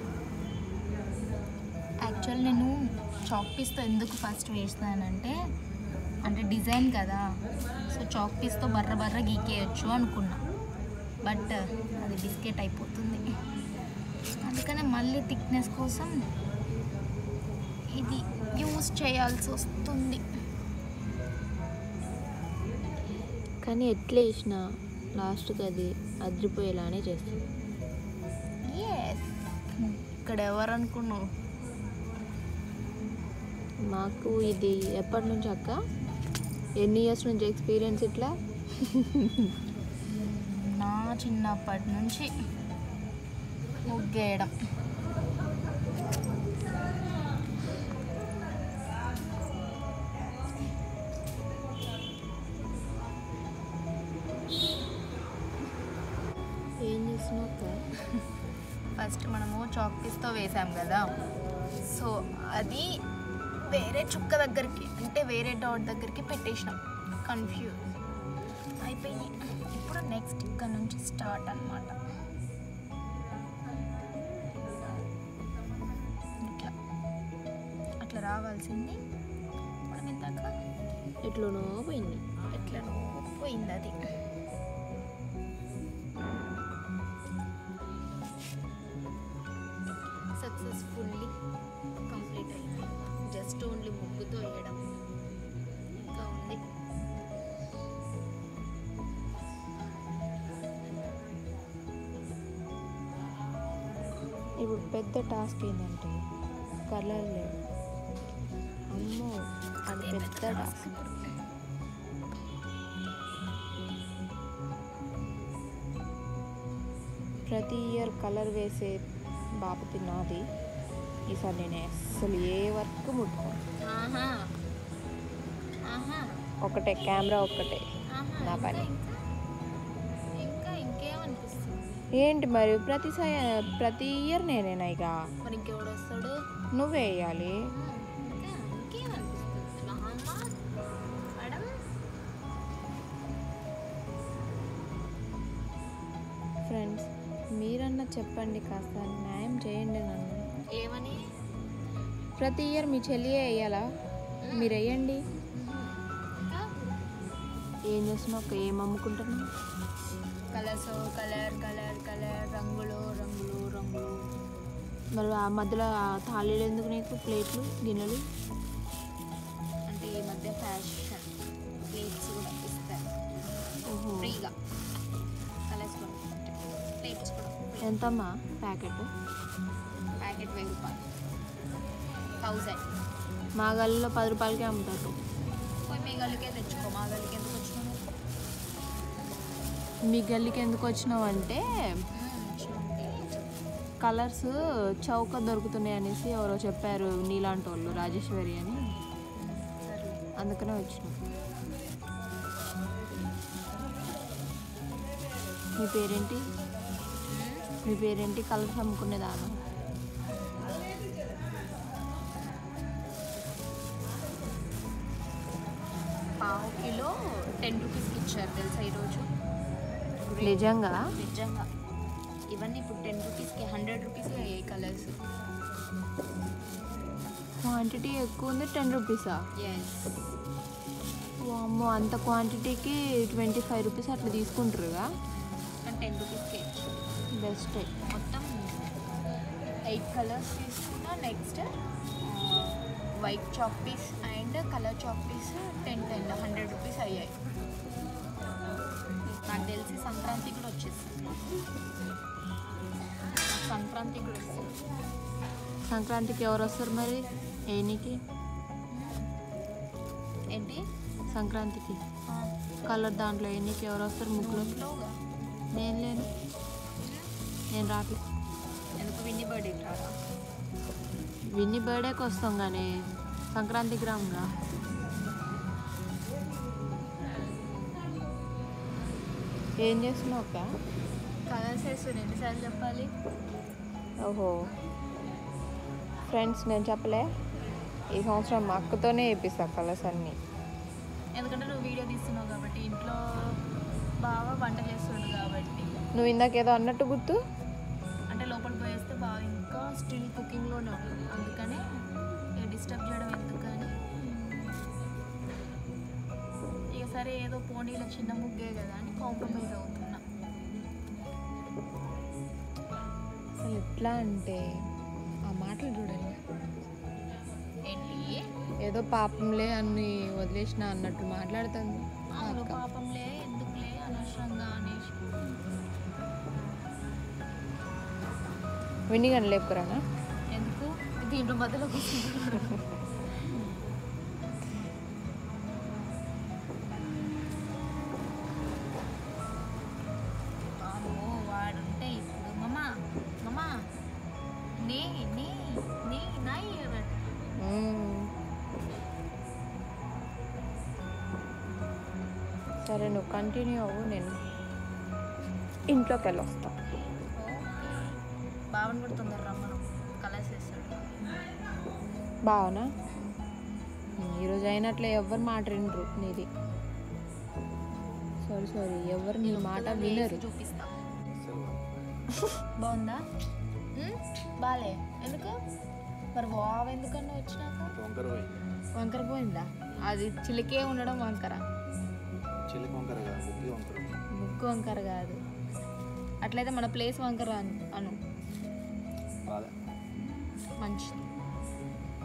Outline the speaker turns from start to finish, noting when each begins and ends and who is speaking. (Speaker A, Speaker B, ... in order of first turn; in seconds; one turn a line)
Speaker A: 2.0-5.4
Speaker A: 6.2-7.2
Speaker A: 7.8-10.4
Speaker A: 11.2-13.2
Speaker A: 14.4-16.1
Speaker A: 17.9-20.2
Speaker B: 23.6-24.6
Speaker B: 25.2-27.4
Speaker A: 28.6-31.3
Speaker B: 33.8-35.8
Speaker B: 36.8-39.5
Speaker A: 40.1-42.3
Speaker A: 43.8-44.5
Speaker A: 56.9-58.2
Speaker A: 59.0-61.1
Speaker A: 61.8-63.0
Speaker A: 63.6-67.9
Speaker A: 68.8-72.0
Speaker A: 76.4-76.7
Speaker A: 78.0-79.0
Speaker A: 79.9-80.5
Speaker B: 81.2-82.2
Speaker A: 82.3-84.0
Speaker A: 90.3-91.3
Speaker A: 92.1-94.8
Speaker A: 96.0-96.6
Speaker B: 104.6-106.2
Speaker B: 106.9-107.5
Speaker B: 108.9-109.3
Speaker B: 109.9-110.9
Speaker A: 109.9-111.3
Speaker B: 117.5-119.0
Speaker B: 119.6-120.4
Speaker B: 121.3-123.6
Speaker A: 123.8-124.5
Speaker A: 125.8-126.3
Speaker B: 126.6-127.8
Speaker A: 128.1-129.2
Speaker B: 128.4-128.9
Speaker A: 130.4-132.1
Speaker B: 132.2-135.2
Speaker A: 135.4-136.4
Speaker B: 136.7-137.6
Speaker A: 137.7-140.5
Speaker A: 141.3-141.8
Speaker B: 146.7-150.4
Speaker A: 150.7-151.2
Speaker B: 152.4-153.8
Speaker A: 154.4-154.8
Speaker B: 154.5-155.2
Speaker A: 155.5-156.7
Speaker B: 157.9-159.5
Speaker A: 160.5-164.2
Speaker B: 165.1-168.2
Speaker A: 169.9-171.2
Speaker A: 171.9-173.1
Speaker B: 173.9-174.4
Speaker A: 174.2-174.5
Speaker A: 175.7-178.0
Speaker B: 177.8-179.1
Speaker A: 180.2-181.0
Speaker A: 182.4-182.8
Speaker B: 183.6-185.2
Speaker A: 185.9-188.0
Speaker B: 190.1-191.6
Speaker A: 192.2-193.5
Speaker B: 194.0-198.9
Speaker A: 199.3-200.2
Speaker B: 200.4-201.2
Speaker B: 205.8-206.5
Speaker A: 207.3-207.7
Speaker B: 207.8-209.6
Speaker A: 216.4-219.3
Speaker A: 220.3-221.7
Speaker B: 220.4-221.0
Speaker A: 222.5-225.1
Speaker B: 227.6-229.4
Speaker A: 229.6-230.1
Speaker B: 231.4-235.1
Speaker A: 235.7-236.7
Speaker B: 237.3-237.9
Speaker A: 238.1-238.5
Speaker A: 239.8-241.7
Speaker A: 242.2-247.3
Speaker A: 249.4-251.3
Speaker A: 253.4-254.8
Speaker B: 255.9-258.2
Speaker A: 258.9-259.3
Speaker A: 260.5-260.8
Speaker B: 261.3-262.0
Speaker B: 262.8-264.8
Speaker A: 264.3-265.2
Speaker B: 265.7-266.3
Speaker A: 267.0-267.3
Speaker B: 267.7-268.2
Speaker A: 269.0-270.2
Speaker B: 271.5-272.9
Speaker B: 273.5-274.5
Speaker B: 279.8-280.7
Speaker A: 281.5-283.1
Speaker B: 284.2-284.7
Speaker B: 286.3-287.3
Speaker B: 288.1-290.4
Speaker A: 291.3-293.6
Speaker A: 294.2-296.0
Speaker B: 296.1-297.4
Speaker A: 298.3-301.8
Speaker A: 302.6-304.7
Speaker A: 306.9-310.2
Speaker B: 313.6-314.6
Speaker B: 315.5-316.4
Speaker A: 317.9-318.4
Speaker B: 318.8-322.8
Speaker A: 322.3-325.4
Speaker B: 329.1-330.0
Speaker A: 330.5-332.8
Speaker A: 333.3-333.7
Speaker A: 340.8-342.9
Speaker A: 343.4-343.7
Speaker A: 344.7-347.2
Speaker B: 347.6-348.3
Speaker B: 352.8-354.4
Speaker B: 355.9-356.8
Speaker A: 357.3-358.2
Speaker A: 358.7-361.2
Speaker B: 362.4-362.9
Speaker B: 364.2-366.5
Speaker B: 368.4-370.4
Speaker A: 369.4-371.0
Speaker C: 371.3-371.8
Speaker A: 372.8-373.2
Speaker A: 373.9-375.6
Speaker A: 376.3-377.9
Speaker C: 377.9-378.5
Speaker A: 378.9-381.6
Speaker C: 382.7-384.2
Speaker A: 384.4-385.4
Speaker A: 386.4-388.2
Speaker C: 389.5-389.7
Speaker A: 390.8-391.3